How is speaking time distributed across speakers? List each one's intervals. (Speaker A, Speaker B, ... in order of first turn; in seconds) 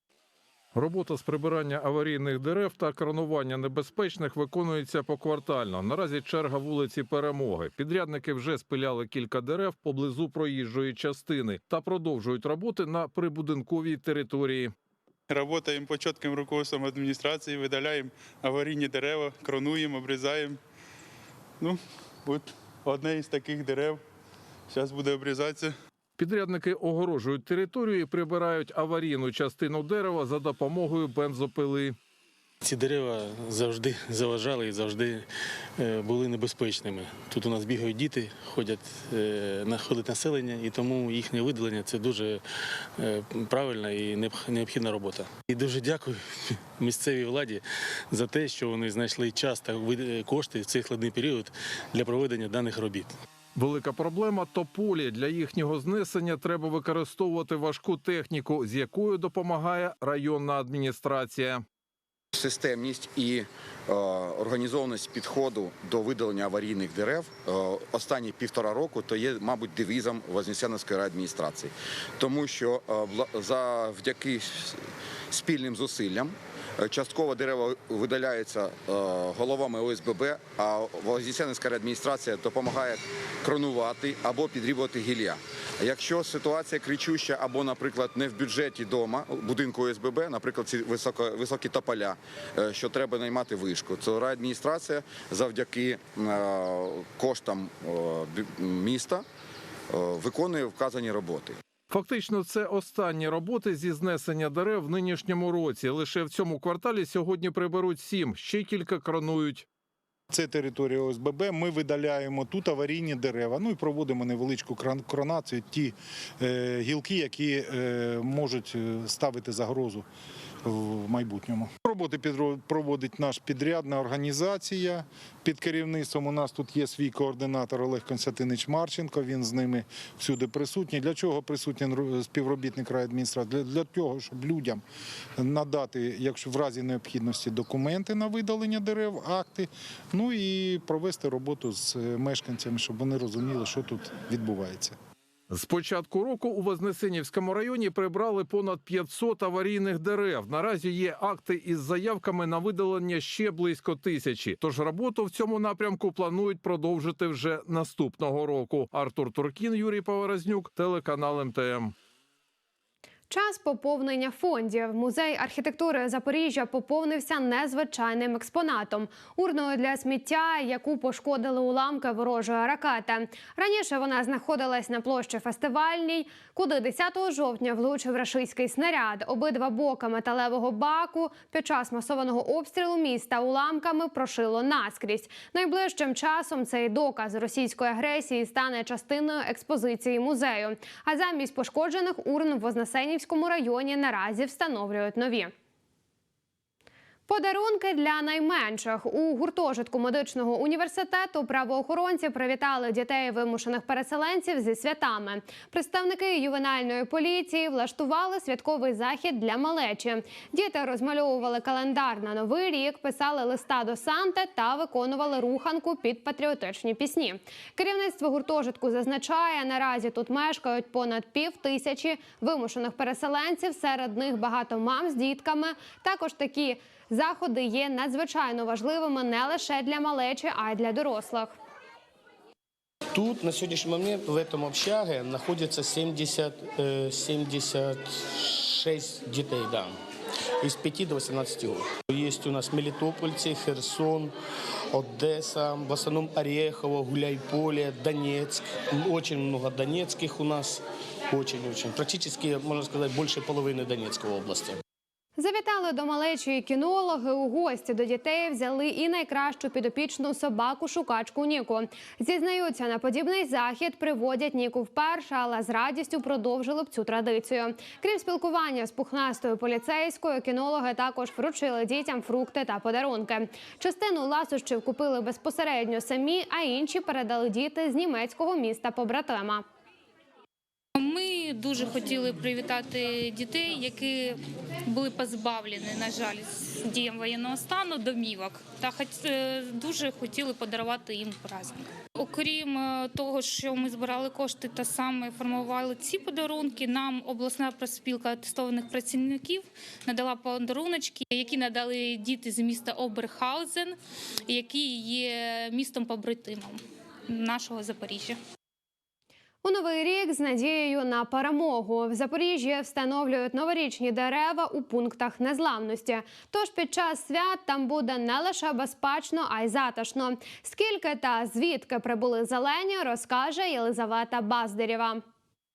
Speaker A: 0.7-14.7, 26.2-31.9, 53.5-61.6, 101.9-109.7, 145.5-161.9
Speaker B: 15.3-20.6, 21.6-24.0, 24.7-25.7
Speaker C: 32.6-35.3, 35.8-42.4, 43.0-53.1
Speaker D: 62.3-74.8, 75.3-99.2, 99.9-101.6
Speaker E: 110.3-120.0, 120.6-134.8, 135.4-144.9
Speaker F: 163.3-195.5, 197.3-231.5, 255.4-279.6, 309.6-325.2
Speaker G: 233.1-239.9, 240.6-244.3, 244.9-254.8
Speaker H: 280.9-304.0, 304.5-308.4